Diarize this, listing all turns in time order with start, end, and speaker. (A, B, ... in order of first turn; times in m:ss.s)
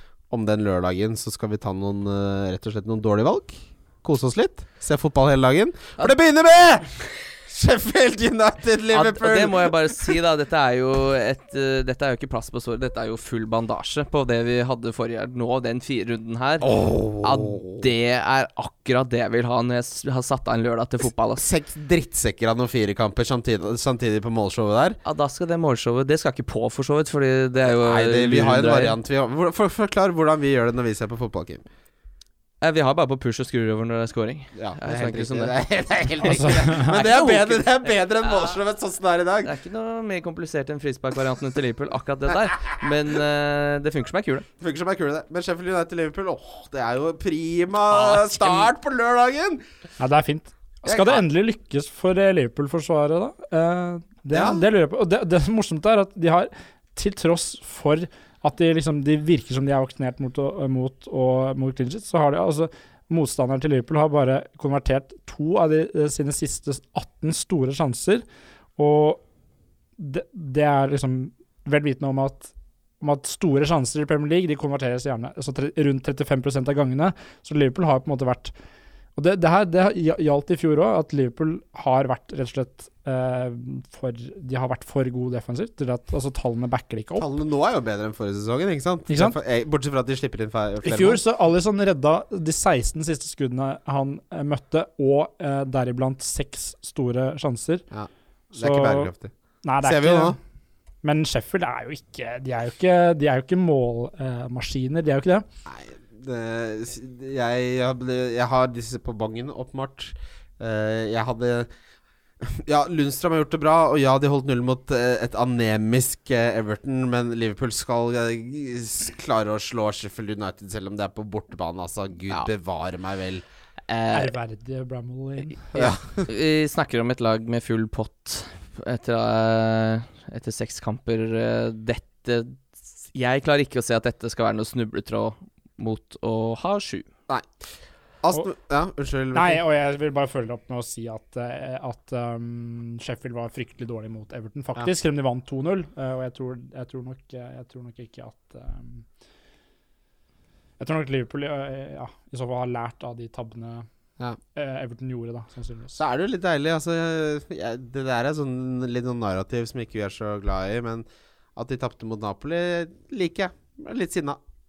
0:00.3-0:10.2 A
0:08.9-0:21.5 B
0:16.6-0:17.9 A
0:21.4-0:25.0 A
0:25.0-0:29.0 B
0:27.7-0:31.6 A
0:32.6-0:35.6 B
0:34.6-0:39.5 A
0:36.2-0:37.0 C
0:36.2-0:38.6 B
0:39.4-0:44.5 B
0:44.6-0:49.6 A
0:47.9-0:48.7 B
0:50.0-1:08.2 C
0:50.8-0:51.2 A
0:54.3-0:54.6 A
1:08.8-1:09.2 C
1:10.0-1:18.5 C
1:19.2-1:27.3 C
1:27.2-1:31.2 A
1:29.1-1:29.4 C
1:30.8-1:37.8 C
1:37.9-1:40.4 A
1:38.5-1:39.1 C
1:39.6-1:40.4 C
1:41.0-1:45.4 C
1:45.6-1:51.7 A
1:52.4-2:03.4 A
2:03.9-2:04.3 B
2:04.1-2:05.9 C
2:05.7-2:06.3 A
2:06.3-2:17.1 B
2:17.3-2:17.6 A
2:18.2-2:19.6 A
2:19.3-2:29.0 C
2:30.8-2:33.9 C
2:34.6-2:36.0 C
2:36.0-2:41.0 A
2:41.6-2:44.4 A